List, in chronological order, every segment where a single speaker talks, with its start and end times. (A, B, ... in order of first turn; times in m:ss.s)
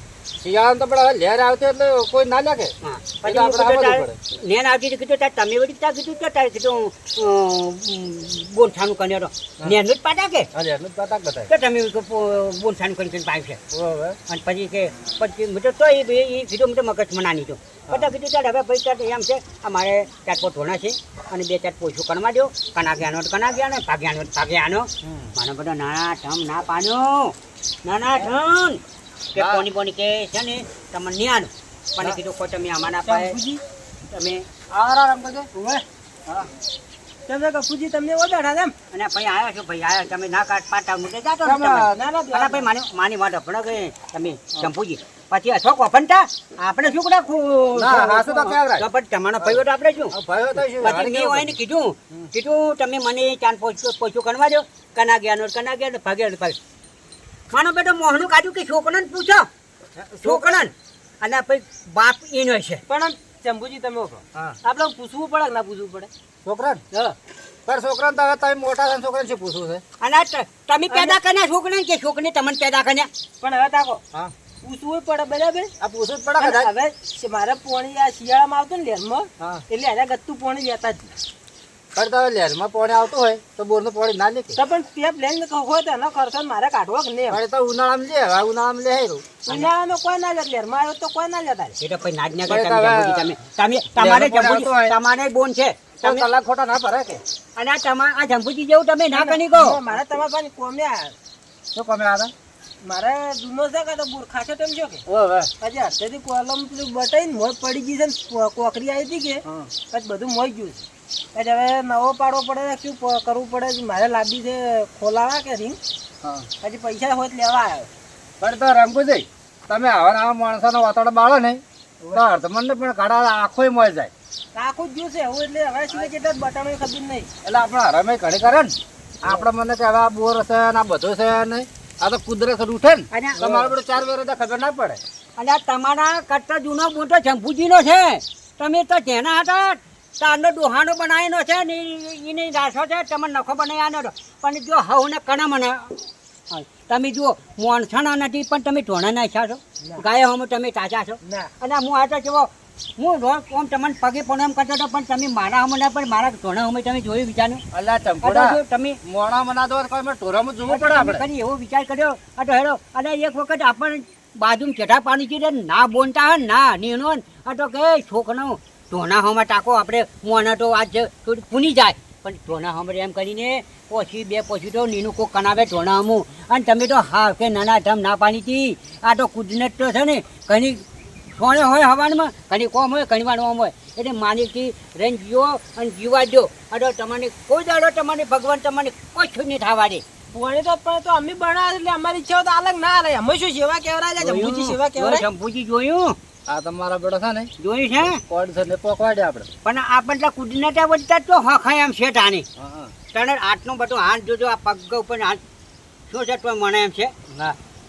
0:00.4-0:04.2 A
0:02.8-0:10.5 B
0:10.5-0:11.5 A
0:11.5-0:13.6 B
0:13.7-0:14.2 A
0:14.3-0:28.8 B
0:25.0-0:25.3 A
0:29.3-0:33.4 B
0:29.4-0:29.6 A
0:33.0-0:33.4 A
0:34.1-0:34.4 B
0:34.7-0:35.5 A
0:35.5-0:35.8 C
0:37.3-0:38.7 C
0:38.9-0:50.1 B
0:41.4-0:42.0 A
0:41.9-0:42.6 C
0:47.7-0:48.8 A
0:50.1-0:51.6 A
0:50.7-0:56.6 B
0:57.5-0:59.4 B
1:00.0-1:00.6 A
1:00.2-1:02.8 B
1:02.9-1:06.1 C
1:06.4-1:06.8 A
1:07.6-1:09.8 A
1:10.0-1:13.1 B
1:10.9-1:11.2 C
1:13.4-1:14.0 C
1:14.6-1:15.7 C
1:15.8-1:16.7 A
1:16.4-1:21.1 C
1:21.9-1:24.6 A
1:24.6-1:27.4 C
1:27.3-1:29.4 A
1:29.5-1:31.8 C
1:31.8-1:36.3 B
1:32.5-1:33.3 A
1:34.0-1:34.9 A
1:36.0-1:37.2 A
1:37.6-1:39.8 B
1:39.1-1:41.1 C
1:41.7-1:42.3 A
1:42.8-1:45.0 C
1:45.1-1:45.5 A
1:45.6-1:50.8 C
1:51.3-1:55.8 C
1:56.6-1:57.9 C
1:58.4-2:01.6 A
2:02.1-2:04.1 A
2:04.5-2:07.3 C
2:07.4-2:15.0 A
2:13.1-2:13.5 B
2:13.3-2:13.7 C
2:15.4-2:26.0 B
2:26.5-2:37.6 B
2:31.2-2:31.5 C
2:37.7-2:41.2 A
2:38.2-2:39.0 B
2:40.7-3:00.8 B
3:01.4-3:10.0 B
3:10.3-3:15.3 C
3:14.2-3:16.1 B
3:16.5-3:17.5 A
3:17.6-3:18.2 B
3:18.3-3:19.5 A
3:19.6-3:22.4 B
3:22.6-3:22.9 A
3:23.1-3:25.4 B
3:26.1-3:27.1 B